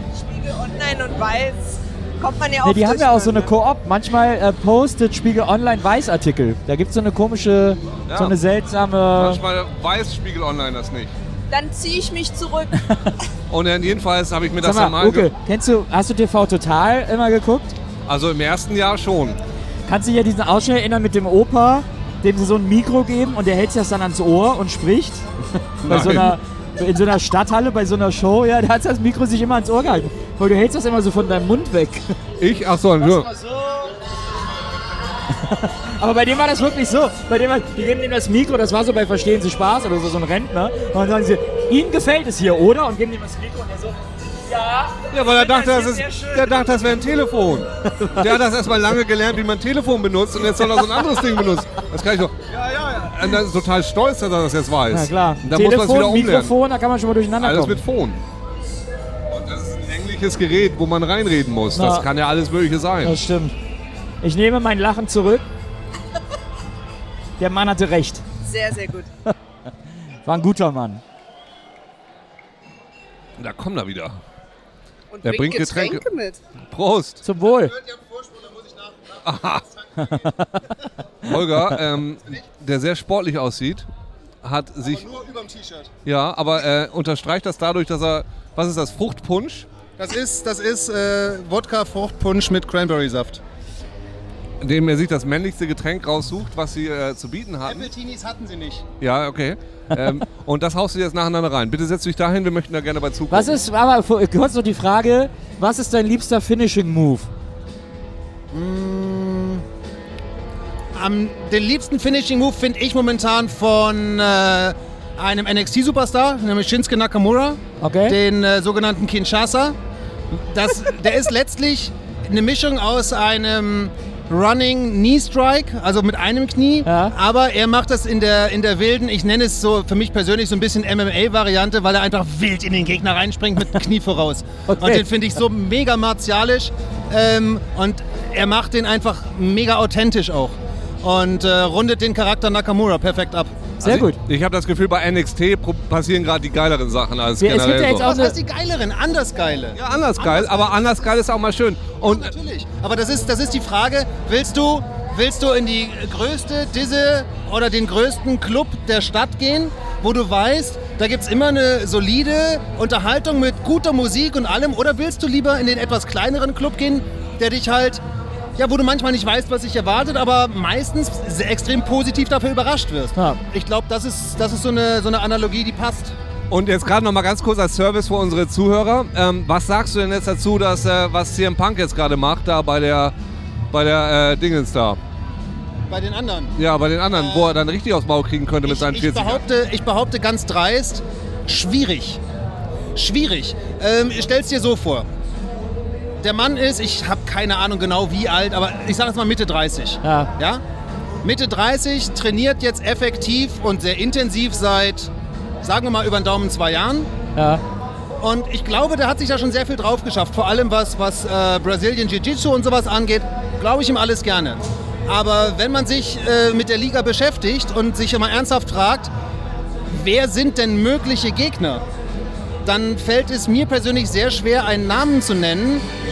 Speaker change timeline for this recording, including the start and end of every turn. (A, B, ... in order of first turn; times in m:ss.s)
0:00.1-0:03.5 A
0:02.6-0:09.4 B
0:08.1-0:08.3 C
0:09.1-0:11.1 C
0:11.5-0:12.8 A
0:13.5-0:15.3 C
0:14.6-0:17.7 B
0:18.0-0:19.4 C
0:19.9-0:32.1 B
0:25.8-0:26.4 C
0:32.4-0:33.3 C
0:33.1-0:33.9 B
0:35.3-0:46.6 B
0:45.1-0:56.5 C
0:47.9-0:48.4 B
0:50.6-0:51.0 B
0:54.9-0:57.8 B
0:57.4-0:58.2 C
0:59.3-1:03.2 C
1:01.7-1:02.1 B
1:03.0-1:03.5 B
1:04.2-1:05.5 B
1:07.4-1:08.2 B
1:08.4-1:09.1 A
1:10.2-1:11.0 B
1:13.4-1:14.2 C
1:15.1-1:16.4 A
1:15.2-1:16.0 C
1:16.7-1:17.2 C
1:17.2-1:17.7 B
1:17.6-1:19.2 D
1:19.2-1:19.6 C
1:20.0-1:20.7 B
1:21.2-1:23.9 C
1:24.4-1:25.0 C
1:24.8-1:25.9 D
1:26.0-1:29.7 C
1:30.0-1:33.4 D
1:34.6-1:37.9 C
1:37.6-1:38.8 D
1:39.0-1:43.6 C
1:43.3-1:47.3 B
1:48.5-1:49.6 D
1:50.9-1:59.8 D
1:57.8-1:58.2 B
2:00.3-2:23.5 D
2:06.8-2:07.1 B
2:14.7-2:15.0 B
2:23.8-2:24.2 B
2:23.8-2:28.1 C
2:27.4-2:28.4 B
2:28.0-2:30.8 D
2:29.7-2:32.3 C
2:32.0-2:48.0 D
2:48.6-2:56.2 D
2:56.5-3:03.1 C
3:03.7-3:05.0 C
3:05.9-3:06.5 D
3:06.6-3:09.4 C
3:07.1-3:07.5 D
3:08.6-3:12.2 D
3:12.9-3:15.1 D
3:16.2-3:20.6 D
3:20.0-3:20.3 B
3:21.2-3:27.1 D
3:27.4-3:27.6 B
3:28.2-3:39.1 D
3:39.9-3:41.8 D
3:42.6-3:45.8 D